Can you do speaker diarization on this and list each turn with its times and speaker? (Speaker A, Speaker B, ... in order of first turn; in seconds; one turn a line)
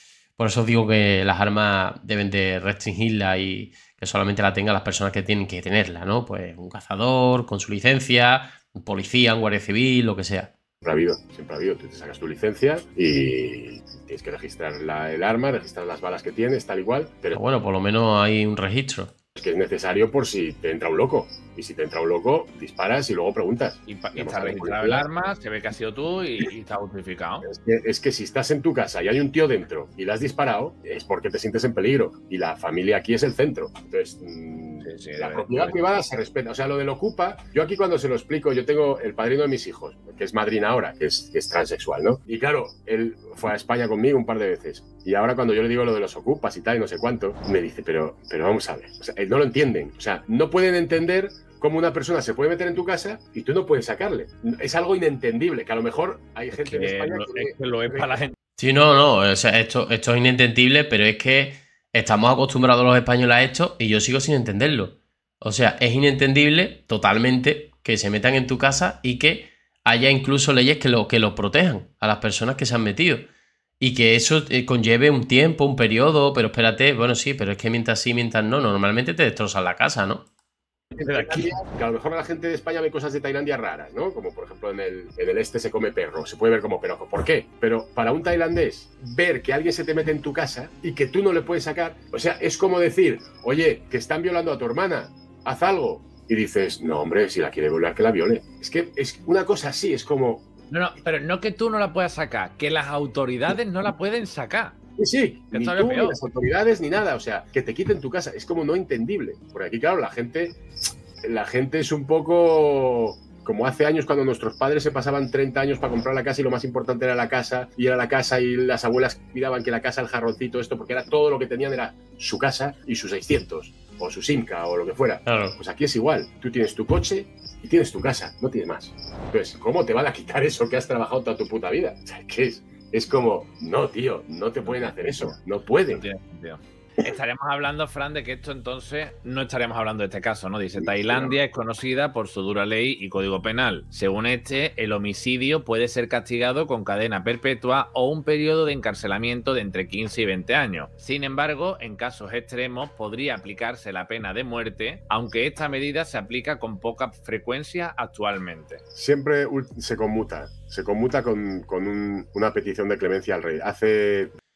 Speaker A: 0.4-10.5
Speaker B: 10.8-17.4
Speaker A: 17.3-19.1
Speaker B: 19.4-25.0
Speaker C: 23.9-27.5
Speaker B: 27.5-58.2
Speaker C: 34.8-35.8
Speaker C: 56.5-58.4
Speaker A: 58.6-73.2
Speaker A: 73.8-80.2
Speaker B: 81.0-100.5
Speaker C: 81.0-81.6
Speaker C: 100.7-104.8
Speaker B: 105.0-110.6
Speaker C: 105.5-106.2
Speaker B: 111.2-136.0
Speaker A: 125.2-125.6
Speaker C: 134.6-135.3
Speaker C: 135.9-158.8
Speaker B: 140.8-141.3
Speaker B: 158.9-164.4